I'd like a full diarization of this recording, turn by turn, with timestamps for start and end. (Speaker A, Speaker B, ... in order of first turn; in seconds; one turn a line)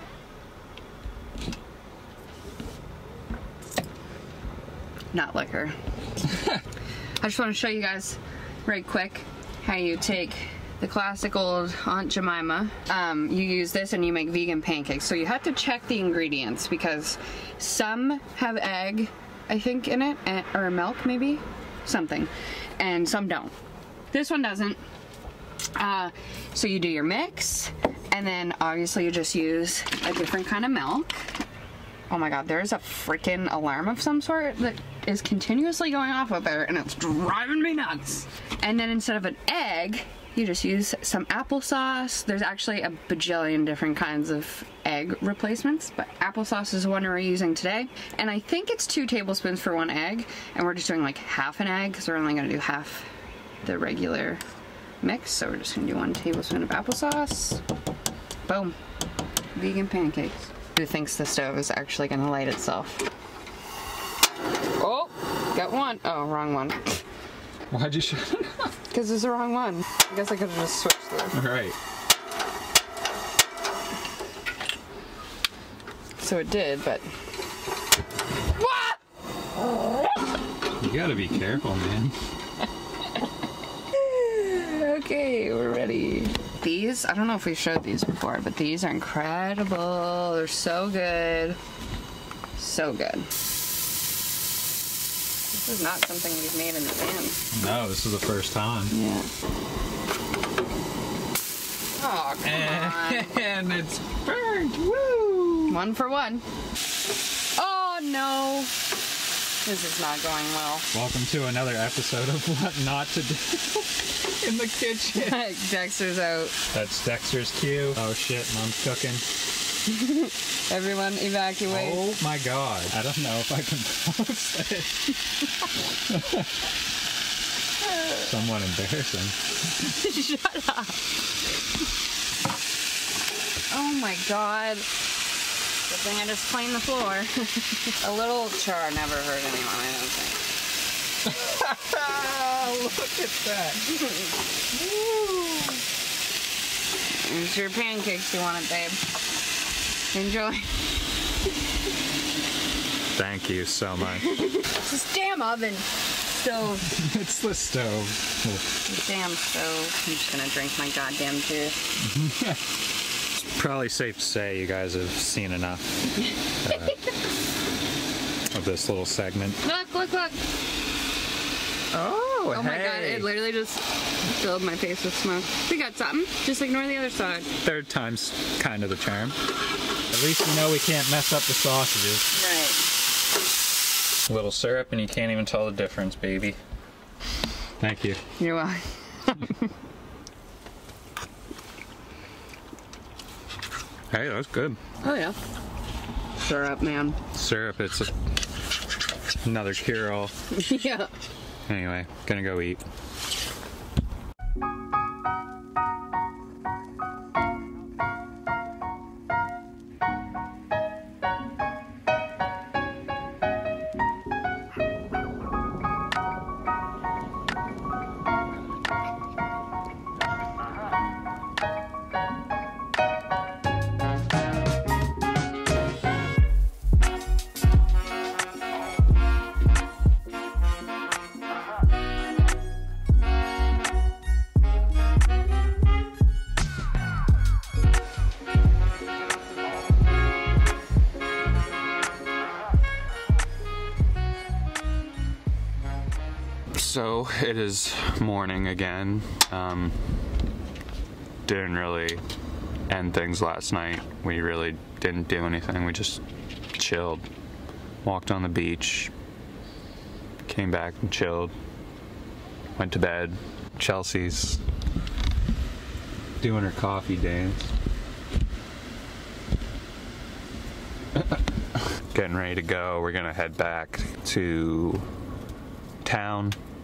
Speaker A: 5.1-5.8
Speaker A: 7.2-23.5
Speaker A: 24.1-24.8
Speaker A: 25.8-31.3
Speaker A: 32.1-53.1
Speaker A: 53.6-54.4
Speaker A: 55.0-57.6
Speaker A: 58.5-58.8
Speaker A: 59.5-63.1
Speaker A: 64.8-67.0
Speaker B: 67.7-68.7
Speaker A: 68.9-71.4
Speaker B: 71.3-71.8
Speaker A: 76.2-77.1
Speaker A: 78.6-79.0
Speaker B: 80.8-82.2
Speaker A: 83.9-91.6
Speaker A: 92.6-93.3
Speaker A: 95.5-97.4
Speaker B: 97.5-98.9
Speaker A: 98.9-99.3
Speaker A: 102.0-103.4
Speaker B: 102.4-105.8
Speaker A: 105.7-106.4
Speaker A: 107.5-108.7
Speaker A: 109.6-110.9
Speaker B: 110.9-115.4
Speaker A: 115.2-116.5
Speaker B: 116.7-119.2
Speaker A: 119.9-122.1
Speaker B: 121.7-125.2
Speaker B: 126.1-126.5
Speaker B: 128.1-129.4
Speaker A: 129.8-131.0
Speaker A: 133.7-134.9
Speaker A: 135.9-140.5
Speaker B: 141.4-144.0
Speaker B: 144.7-145.8
Speaker A: 147.1-149.0
Speaker A: 150.1-150.9
Speaker B: 153.2-154.3
Speaker A: 154.1-156.9
Speaker B: 156.8-158.7
Speaker A: 158.9-161.8
Speaker B: 162.0-162.6
Speaker B: 163.3-166.1
Speaker B: 166.6-167.0
Speaker A: 166.7-167.1
Speaker B: 168.5-169.6
Speaker A: 169.6-170.4
Speaker B: 171.9-173.3
Speaker A: 172.5-177.5
Speaker B: 177.6-179.4
Speaker B: 180.1-182.3
Speaker A: 182.3-182.9
Speaker B: 184.3-186.6
Speaker B: 187.8-188.2
Speaker A: 188.4-189.7
Speaker B: 194.1-194.8
Speaker A: 195.0-195.4
Speaker A: 196.4-197.2
Speaker B: 197.3-198.1
Speaker B: 199.4-200.3
Speaker A: 200.5-201.1
Speaker B: 201.7-202.8
Speaker B: 246.8-250.2
Speaker B: 251.5-252.2
Speaker B: 252.9-256.2
Speaker B: 256.8-257.3
Speaker B: 258.0-259.1
Speaker B: 260.5-261.5
Speaker B: 262.8-264.6
Speaker B: 266.4-267.7
Speaker B: 272.1-275.1
Speaker B: 276.0-276.6